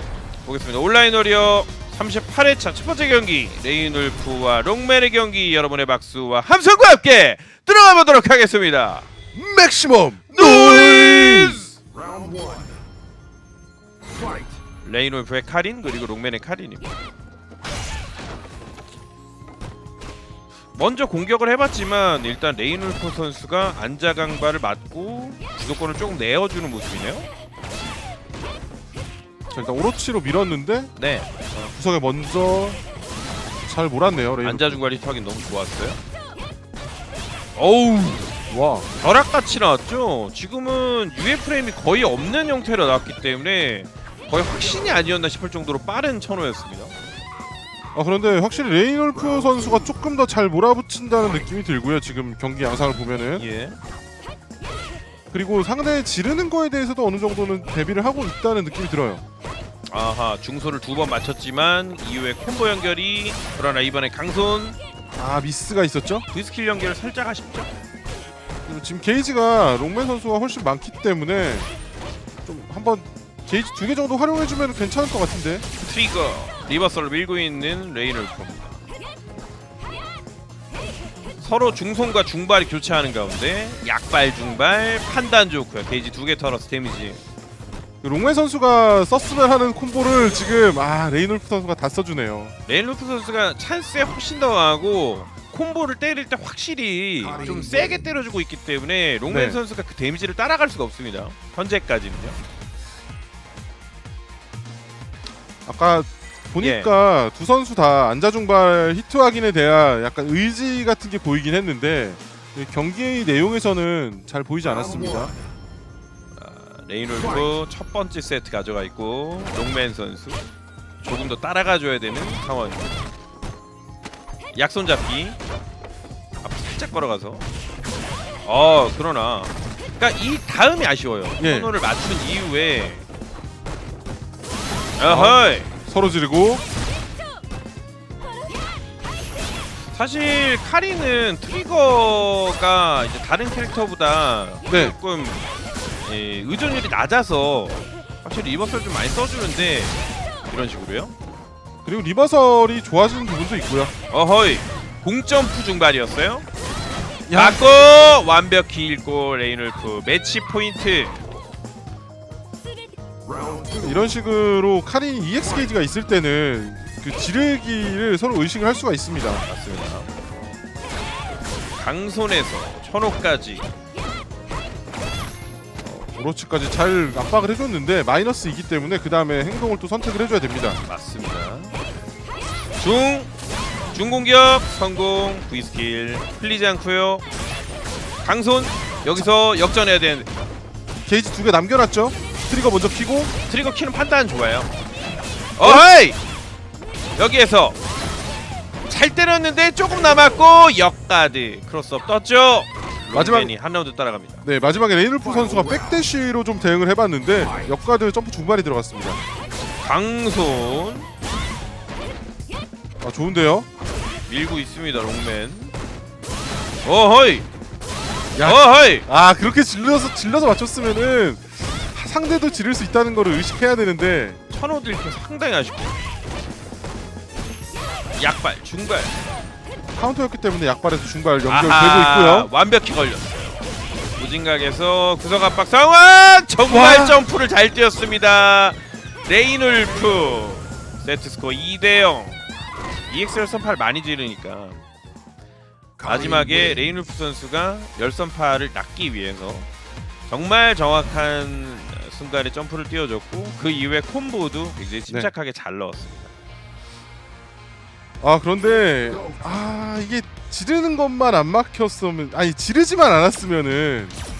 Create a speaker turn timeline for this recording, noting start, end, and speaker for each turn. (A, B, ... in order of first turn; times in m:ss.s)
0:00.4-0:09.1 A
0:09.3-0:11.7 B
0:10.3-0:11.7 A
0:14.8-0:16.9 A
0:20.7-0:27.3 A
0:29.5-0:30.9 B
0:31.0-0:31.3 A
0:31.5-0:32.8 B
0:33.6-0:34.8 B
0:34.4-0:36.0 A
0:37.6-0:38.3 A
0:38.5-0:38.9 B
0:39.0-0:46.9 A
0:47.9-0:53.4 B
0:53.4-0:53.8 A
0:55.3-0:59.2 B
0:59.9-1:04.8 A
1:05.1-1:06.3 B
1:06.3-1:07.7 A
1:08.6-1:11.7 B
1:12.4-1:15.6 B
1:15.8-1:18.8 A
1:21.4-1:27.2 A
1:28.0-1:32.5 B
1:32.6-1:42.4 A
1:39.3-1:39.6 B
1:45.6-1:55.3 B
1:46.6-1:46.9 A
1:56.4-2:00.4 A
2:01.0-2:03.0 A
2:04.5-2:05.4 A
2:06.4-2:07.4 A
2:08.4-2:13.0 A
2:11.4-2:11.7 B
2:15.0-2:15.7 A
2:15.0-2:16.6 B
2:19.9-2:25.4 A
2:24.7-2:25.0 B
2:26.0-2:31.1 A
2:31.8-2:33.9 B
2:34.1-2:36.5 A
2:37.3-2:37.6 B
2:37.3-2:41.2 A
2:43.7-2:49.4 B
2:49.4-2:50.1 A
2:51.8-2:53.7 A
2:55.8-3:00.8 B
3:00.8-3:01.8 A
3:02.8-3:03.3 A
3:03.9-3:07.2 A
3:08.2-3:10.3 A
3:11.0-3:13.3 B
3:13.5-3:14.7 A
3:15.6-3:16.2 A
3:15.6-3:15.9 B
3:17.2-3:17.8 A
3:18.9-3:24.4 A
3:23.1-3:23.5 B
3:24.4-3:29.2 B
3:29.8-3:31.1 A
3:33.0-3:33.6 B
3:34.3-3:35.7 A
3:36.8-3:37.5 A
3:38.4-3:44.4 B
3:38.4-3:39.0 A
3:44.5-3:46.0 A
3:48.2-3:49.2 A
3:49.9-3:52.5 B
3:51.5-3:53.6 A
3:54.2-4:02.4 A
3:56.7-3:57.2 B
4:03.1-4:04.8 A
4:06.0-4:06.8 B
4:06.0-4:09.7 A
4:10.3-4:16.3 A
4:18.2-4:24.2 B